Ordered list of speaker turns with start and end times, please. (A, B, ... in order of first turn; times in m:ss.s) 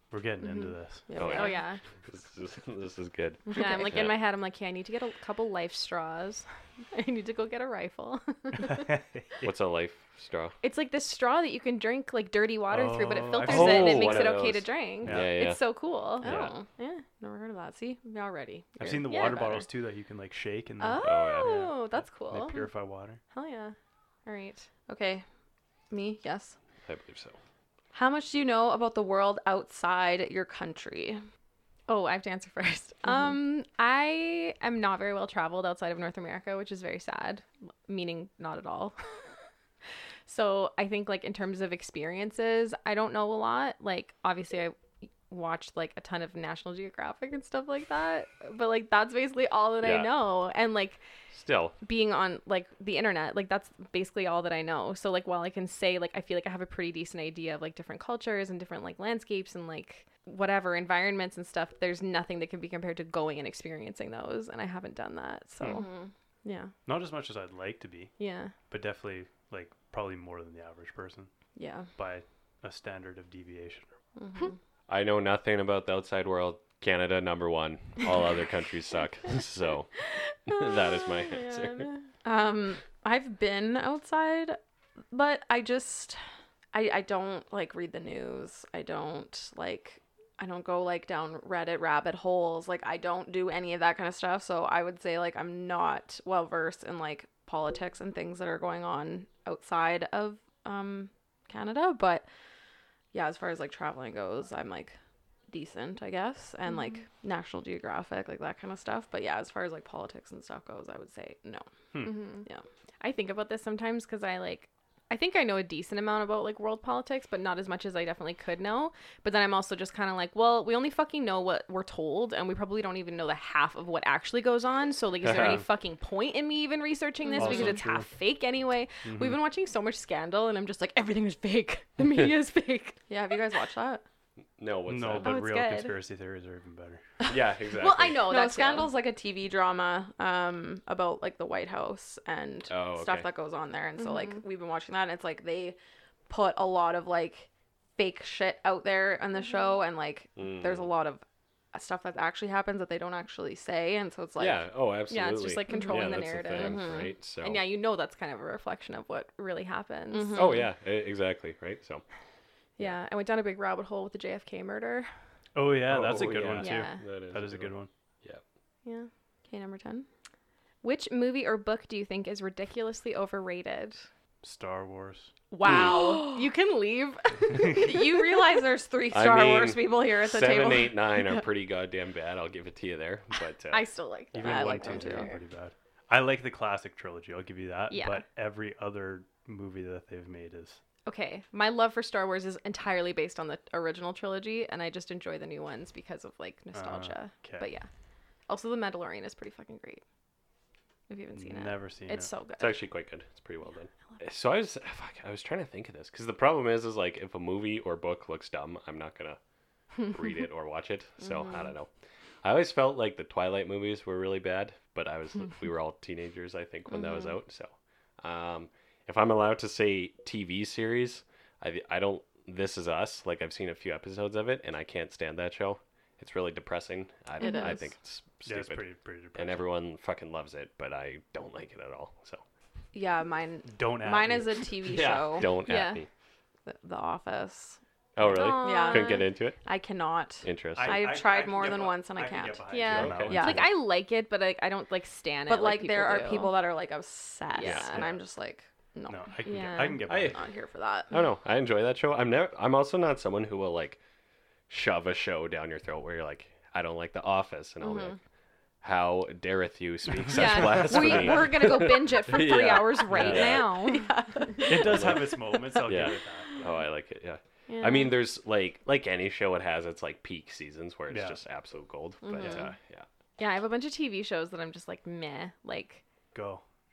0:00.1-0:01.1 A
0:01.1-0:01.6 B
0:01.2-0:01.8 C
0:01.2-0:04.2 D
0:03.5-0:04.0 B
0:03.6-0:08.9 C
0:08.6-0:09.5 A
0:09.4-0:10.6 D
0:10.6-0:17.0 C
0:12.7-0:14.4 A
0:13.4-0:15.6 D
0:15.0-0:15.4 A
0:16.2-0:19.6 B
0:16.2-0:16.5 D
0:18.8-0:21.0 A
0:19.1-0:19.6 C
0:20.8-0:22.7 C
0:21.0-0:21.7 D
0:22.0-0:23.2 A
0:23.3-0:24.7 C
0:24.9-0:25.2 B
0:25.9-0:26.6 B
0:26.9-0:27.4 D
0:27.9-0:31.2 B
0:31.9-0:39.0 C
0:40.3-0:44.8 C
0:45.3-0:51.0 C
0:49.8-0:50.1 D
0:51.3-0:51.8 D
0:51.8-1:05.9 C
1:05.7-1:06.1 B
1:06.4-1:06.7 C
1:06.9-1:08.1 A
1:08.2-1:08.5 C
1:08.7-1:11.3 A
1:11.6-1:11.9 C
1:12.0-1:13.9 A
1:14.2-1:14.6 B
1:14.9-1:19.9 D
1:20.5-1:21.9 D
1:20.5-1:22.0 C
1:22.2-1:24.6 B
1:25.1-1:26.2 B
1:26.7-1:42.2 B
1:43.1-1:45.0 B
1:45.5-1:52.6 B
1:46.7-1:47.0 C
1:51.9-1:52.2 A
1:52.0-1:52.5 C
1:53.0-2:13.0 C
2:05.2-2:05.6 D
2:05.3-2:05.6 A
2:07.2-2:07.8 B
2:07.4-2:08.1 A
2:09.0-2:09.4 A
2:13.1-2:14.0 B
2:14.6-2:15.4 D
2:14.9-2:17.0 A
2:15.2-2:16.0 C
2:17.3-2:18.3 D
2:17.8-2:18.9 C
2:18.1-2:25.8 B
2:22.7-2:23.3 D
2:24.0-2:24.4 C
2:26.3-2:34.6 B
2:30.4-2:30.9 D
2:34.4-2:37.6 D
2:35.1-2:40.4 C
2:35.7-2:36.0 B
2:36.6-2:37.1 B
2:40.1-2:40.7 B
2:40.3-2:42.0 D
2:42.8-2:45.1 C
2:45.6-2:47.9 A
2:45.9-2:48.4 D
2:46.6-2:47.0 C
2:48.8-2:49.1 C
2:49.5-2:50.1 B
2:50.8-2:54.0 C
2:54.4-2:55.3 A
2:55.5-2:58.0 C
2:55.6-2:56.1 D
2:55.6-2:56.4 B
2:57.7-3:01.4 B
2:59.1-3:03.9 D
3:03.7-3:05.4 C
3:04.3-3:10.8 A
3:04.4-3:05.4 B
3:07.9-3:08.2 C
3:11.1-3:17.9 C
3:16.7-3:17.7 A
3:18.5-3:20.0 C
3:21.1-3:22.8 C
3:21.3-3:22.3 A
3:22.6-3:29.4 D
3:30.0-3:31.9 D
3:32.4-3:52.4 D
3:47.4-3:47.8 B
3:47.4-3:47.9 C
3:48.4-3:49.7 A
3:52.9-3:55.5 B
3:53.7-3:54.7 A
3:54.8-3:56.1 D
3:55.7-3:56.0 C
3:56.7-3:57.8 B
3:58.2-3:59.6 D
3:58.2-3:59.3 C
3:58.4-4:03.7 B
4:00.4-4:01.1 D
4:00.8-4:03.7 A
4:02.7-4:06.6 C
4:02.9-4:03.6 D
4:05.5-4:09.4 B
4:07.5-4:08.0 C
4:07.6-4:08.1 D
4:09.1-4:10.4 A
4:09.4-4:10.0 C
4:10.1-4:10.4 D
4:10.3-4:11.1 B
4:11.1-4:14.0 D
4:14.7-4:18.2 D
4:17.8-4:18.2 B
4:18.8-4:23.7 D
4:20.2-4:21.5 A
4:20.3-4:24.1 C
4:23.1-4:23.6 A
4:23.9-4:25.8 B
4:24.6-4:26.6 A
4:24.7-4:33.1 D
4:27.7-4:28.2 C
4:31.1-4:31.4 A
4:32.2-4:32.7 B
4:32.4-4:32.7 A
4:33.4-4:36.0 C
4:36.3-4:36.6 A